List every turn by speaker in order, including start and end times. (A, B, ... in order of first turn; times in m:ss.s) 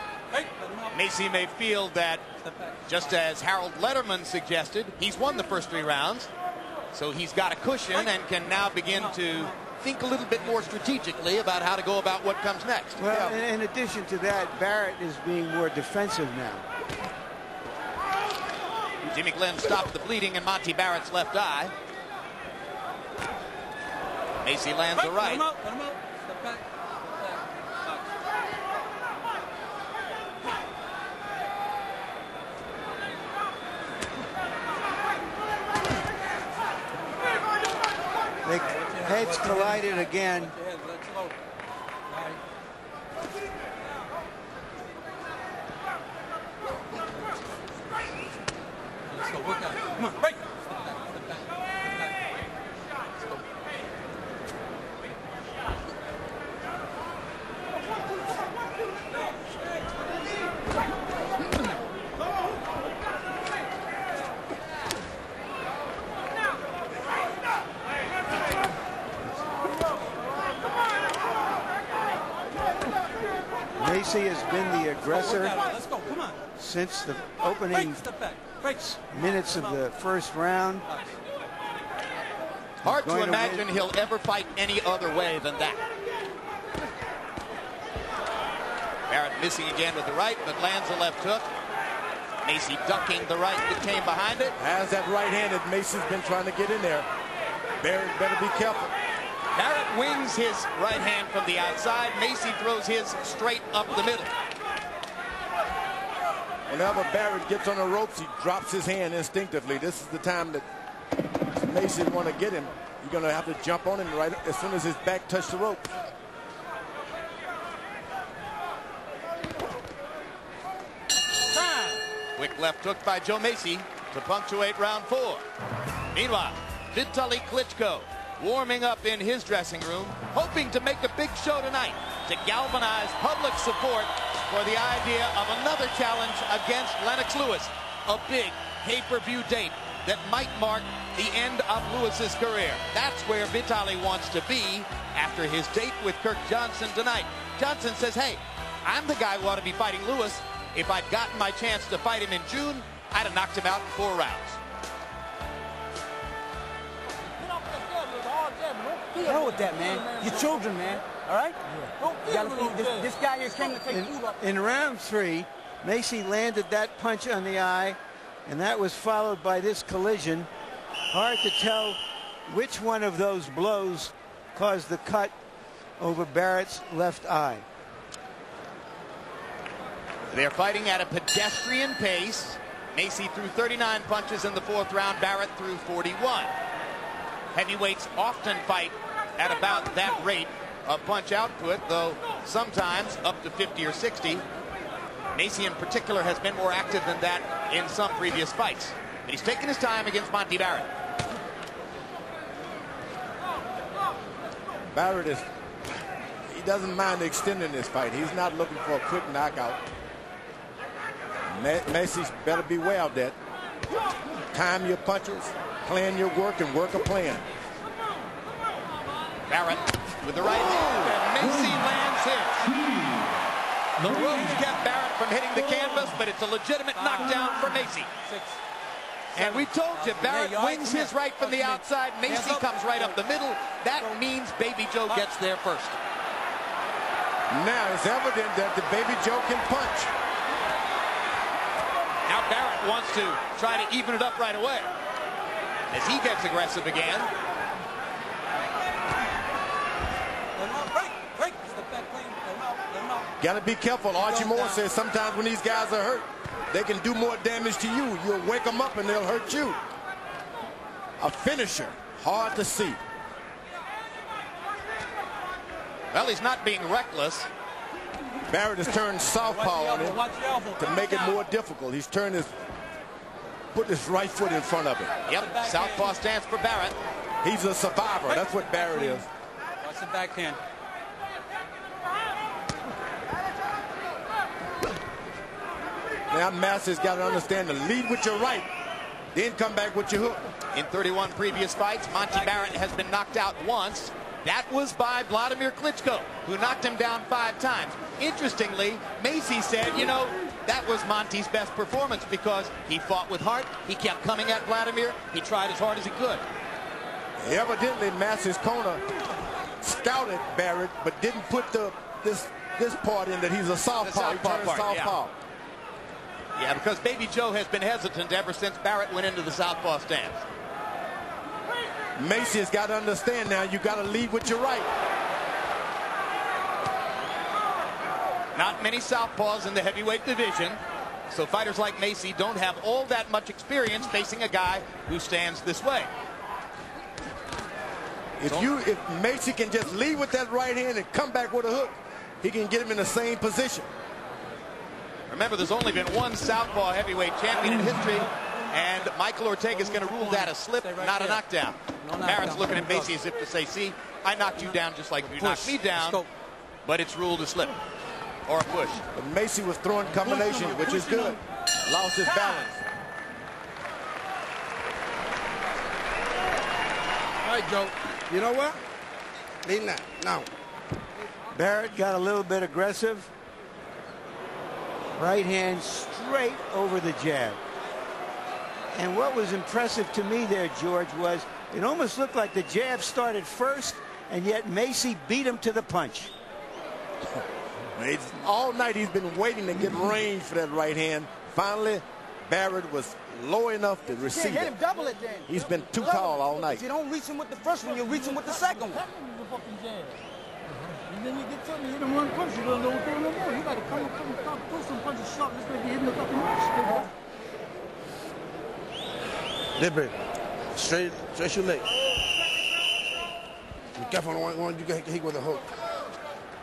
0:00.3-0:01.0 A
0:00.9-0:02.2 B
0:02.4-0:03.2 A
0:02.9-0:06.3 B
0:06.9-0:13.0 B
0:08.7-0:09.5 A
0:10.4-0:10.8 A
0:13.0-0:16.6 C
0:19.1-0:21.7 B
0:24.4-0:25.4 B
0:25.0-0:28.1 A
0:38.4-0:40.5 C
0:38.6-0:41.4 A
0:42.1-0:42.4 A
0:49.1-0:52.2 A
0:53.2-0:53.4 A
1:13.8-1:15.6 C
1:15.1-1:16.4 A
1:16.6-1:18.0 C
1:17.7-1:19.8 A
1:18.8-1:20.8 C
1:20.8-1:21.2 A
1:22.8-1:23.7 C
1:22.8-1:25.8 B
1:29.1-1:31.5 B
1:32.4-1:34.6 B
1:34.6-1:37.1 D
1:37.8-1:38.9 D
1:39.5-1:44.3 B
1:46.7-1:50.6 D
1:51.6-1:55.9 D
2:02.4-2:05.4 B
2:06.1-2:34.6 B
2:37.2-2:40.8 E
2:39.2-2:41.6 F
2:41.7-2:44.3 E
2:42.2-2:44.0 F
2:43.9-2:50.5 C
2:51.1-2:55.3 C
2:56.0-2:57.6 C
3:00.3-3:06.5 B
3:07.5-3:14.4 B
3:15.3-3:20.9 B
3:24.9-3:25.4 D
3:26.5-3:29.8 D
3:31.5-3:33.3 D
3:34.5-3:37.4 D
3:39.5-3:43.1 B
3:44.0-3:48.1 B
3:44.1-3:44.7 A
3:46.9-3:48.6 A
3:49.3-3:53.1 A
3:49.3-3:56.0 B
3:57.5-4:00.1 D
4:02.2-4:04.9 B
4:05.9-4:07.3 B
4:10.6-4:13.3 A
4:13.4-4:19.8 D
4:14.1-4:14.8 A
4:21.2-4:23.0 D
4:26.1-4:27.5 B
4:28.5-4:30.2 D
4:29.4-4:31.4 A
4:30.8-4:32.5 D
4:33.7-4:35.1 D
4:35.3-4:37.0 B
4:35.3-4:36.2 A
4:37.4-4:39.2 D
4:38.2-4:39.2 A
4:39.8-4:40.6 A
4:46.3-4:48.7 D
4:49.3-4:50.4 D
4:50.7-5:06.4 B
5:07.4-5:09.0 D
5:09.8-5:15.3 D
5:14.0-5:15.2 B
5:16.6-5:20.4 B
5:22.2-5:24.9 D
5:28.5-5:36.1 B
5:38.4-5:43.9 D
5:45.3-5:56.2 B
5:47.8-5:51.4 A
5:52.0-5:53.2 A
5:55.2-5:56.3 A
5:56.8-5:57.8 B
5:58.5-5:59.0 B
5:59.1-6:02.8 D
6:00.2-6:01.2 G
6:00.3-6:01.2 A
6:02.3-6:02.6 A
6:07.4-6:08.8 G
6:09.6-6:10.5 G
6:11.5-6:13.3 C
6:15.2-6:17.6 C
6:18.9-6:26.3 C
6:28.0-6:34.7 D
6:34.3-6:39.0 F
6:35.5-6:36.8 D
6:38.0-6:40.2 E
6:41.1-6:47.1 E
6:49.8-6:50.2 G
6:50.7-6:51.9 G
6:53.9-6:55.7 G